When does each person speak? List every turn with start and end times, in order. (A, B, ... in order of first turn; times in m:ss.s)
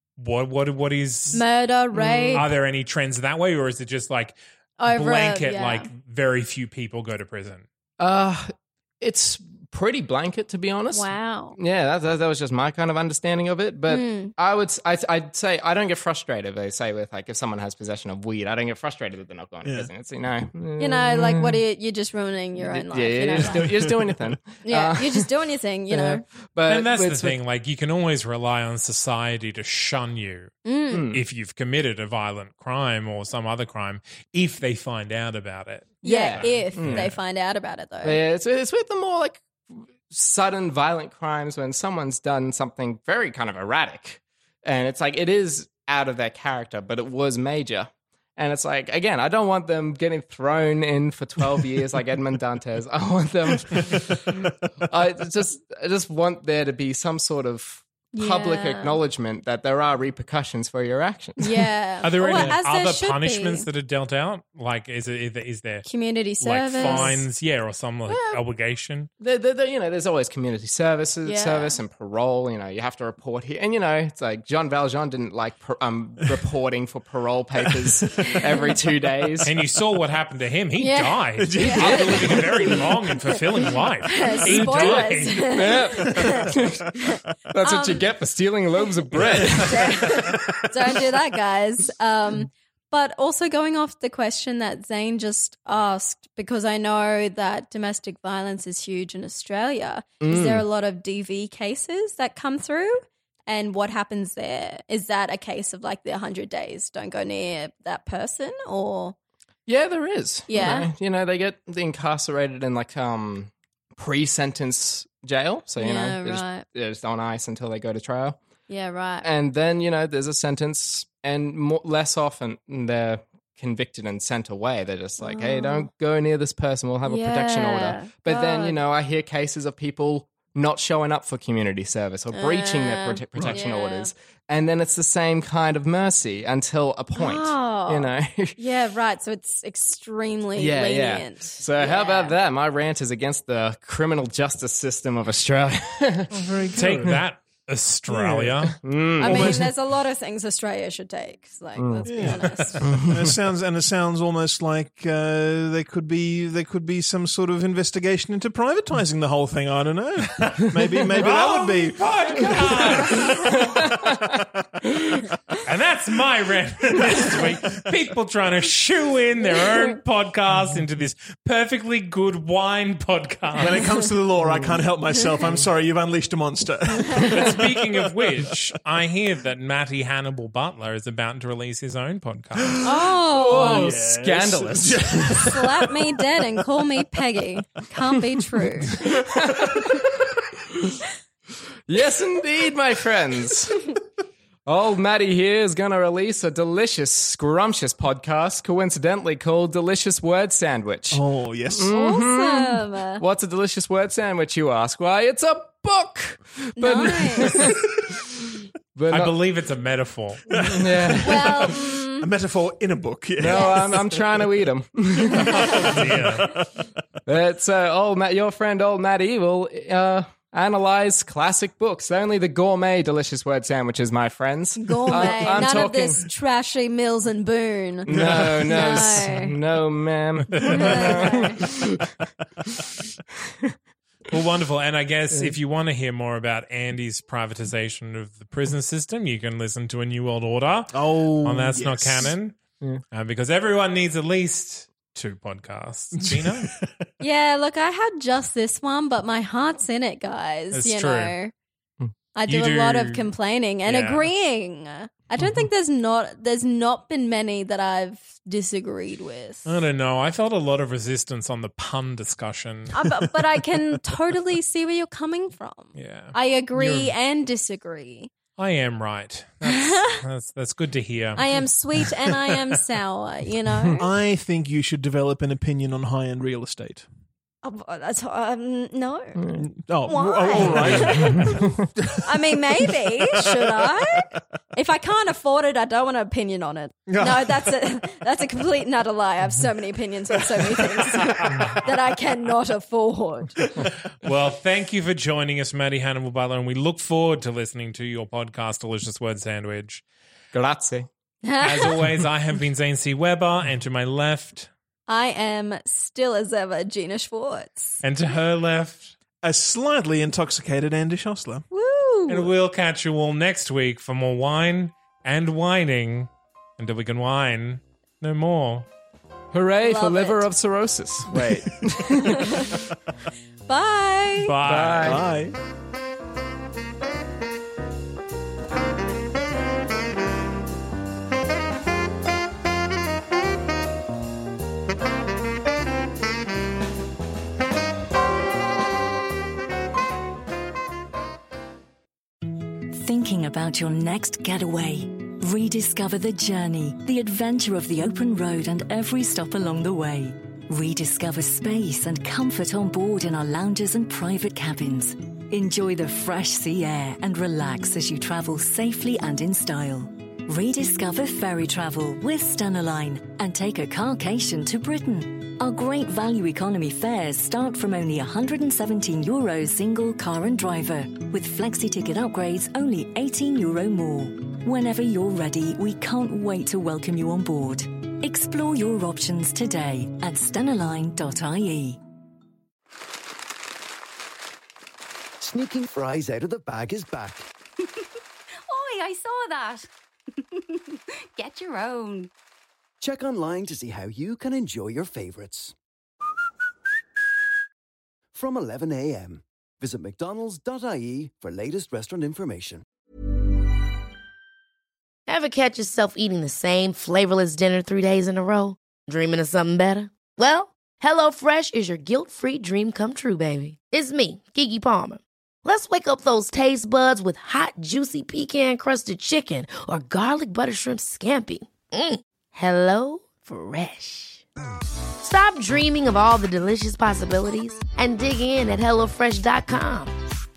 0:00.2-0:01.4 A
0:01.3-0:02.5 B
0:01.9-0:02.5 C
0:02.3-0:07.6 A
0:04.8-0:05.9 B
0:08.0-0:21.4 C
0:10.9-0:11.6 B
0:13.9-0:14.3 B
0:19.6-0:19.9 D
0:20.8-0:23.7 B
0:22.6-0:25.3 C
0:23.4-0:24.4 D
0:24.6-0:26.2 B
0:25.9-0:27.4 C
0:26.7-0:30.6 A
0:30.6-0:31.1 B
0:30.9-0:31.2 C
0:31.1-0:37.1 A
0:36.0-0:37.1 C
0:36.0-0:38.2 B
0:38.0-1:01.6 C
0:58.1-0:59.0 B
1:01.4-1:03.7 B
1:02.0-1:05.9 A
1:05.8-1:07.2 B
1:06.4-1:09.1 A
1:06.8-1:07.2 C
1:08.1-1:08.4 C
1:09.2-1:19.5 C
1:11.2-1:11.8 B
1:17.6-1:18.1 D
1:18.2-1:18.6 B
1:19.4-1:25.6 A
1:20.8-1:22.4 B
1:21.4-1:22.8 D
1:21.9-1:22.2 C
1:24.1-1:26.5 B
1:24.5-1:24.8 D
1:24.6-1:25.0 C
1:25.5-1:30.2 C
1:26.1-1:26.5 D
1:27.1-1:28.1 B
1:29.4-1:30.5 D
1:29.6-1:49.2 B
1:40.2-1:40.6 C
1:49.7-1:58.4 C
1:50.5-1:50.9 B
1:55.8-1:56.6 B
1:58.7-1:59.3 B
1:59.2-2:18.6 C
2:05.2-2:05.9 B
2:07.0-2:08.8 B
2:12.3-2:14.1 B
2:13.4-2:13.6 D
2:17.2-2:22.4 B
2:20.6-2:26.3 C
2:26.3-2:27.2 D
2:26.7-2:28.8 A
2:28.1-2:29.7 D
2:28.8-2:29.7 C
2:29.2-2:32.9 B
2:31.8-2:32.1 C
2:32.1-2:44.9 D
2:32.2-2:32.8 A
2:32.8-2:33.2 C
2:41.2-2:43.6 A
2:43.3-2:44.5 C
2:45.6-2:53.8 A
2:47.0-2:47.8 D
2:53.6-2:58.6 D
2:54.4-2:54.8 C
2:57.3-3:02.8 A
3:02.8-3:04.0 B
3:03.3-3:05.4 C
3:03.5-3:06.0 D
3:05.4-3:09.0 B
3:09.0-3:09.8 D
3:09.0-3:10.2 C
3:11.9-3:13.8 C
3:14.7-3:29.4 C
3:21.1-3:21.9 D
3:21.9-3:23.2 B
3:26.8-3:27.5 B
3:29.1-3:30.5 A
3:30.5-3:34.5 D
3:30.6-3:31.7 C
3:31.2-3:32.3 B
3:33.4-3:36.0 C
3:33.5-3:33.9 B
3:35.3-3:35.8 B
3:35.3-3:36.8 D
3:35.6-3:36.6 A
3:37.3-3:46.2 C
3:44.8-3:49.5 B
3:45.1-3:45.6 D
3:48.1-3:52.1 C
3:48.1-3:49.0 D
3:50.5-3:51.2 A
3:50.7-3:51.6 B
3:54.3-4:02.6 A
4:00.9-4:02.3 D
4:03.1-4:06.7 A
4:06.2-4:07.0 D
4:07.2-4:11.5 B
4:10.7-4:11.4 A
4:12.4-4:19.8 B
4:12.5-4:13.3 A
4:13.9-4:14.3 A
4:19.7-4:23.0 A
4:22.9-4:28.3 B
4:26.0-4:27.2 A
4:28.6-4:31.5 A
4:29.7-4:30.2 B
4:31.4-4:34.0 B
4:34.0-4:37.1 D
4:37.6-4:39.4 B
4:39.5-4:42.3 D
4:40.1-4:41.6 B
4:40.7-4:41.7 C
4:42.2-4:53.6 B
4:42.8-4:43.7 D
4:47.1-4:47.7 D
4:50.6-4:51.8 D
4:54.2-5:00.0 A
5:00.5-5:01.1 C
5:01.4-5:02.0 B
5:01.6-5:04.7 A
5:05.1-5:08.0 B
5:08.0-5:09.2 A
5:09.4-5:11.6 D
5:11.7-5:12.5 B
5:12.3-5:18.9 A
5:19.5-5:22.4 C
5:19.8-5:20.4 B
5:21.3-5:22.0 D
5:22.2-5:22.7 B
5:23.7-5:24.6 B
5:24.4-5:25.2 A
5:24.6-5:25.2 C
5:25.0-5:25.6 D
5:42.9-6:22.0 E
6:25.4-6:27.5 F
6:28.7-6:32.3 G
6:33.0-6:35.7 F
6:38.3-6:42.8 F
6:45.3-7:04.4 H
7:05.2-7:10.2 H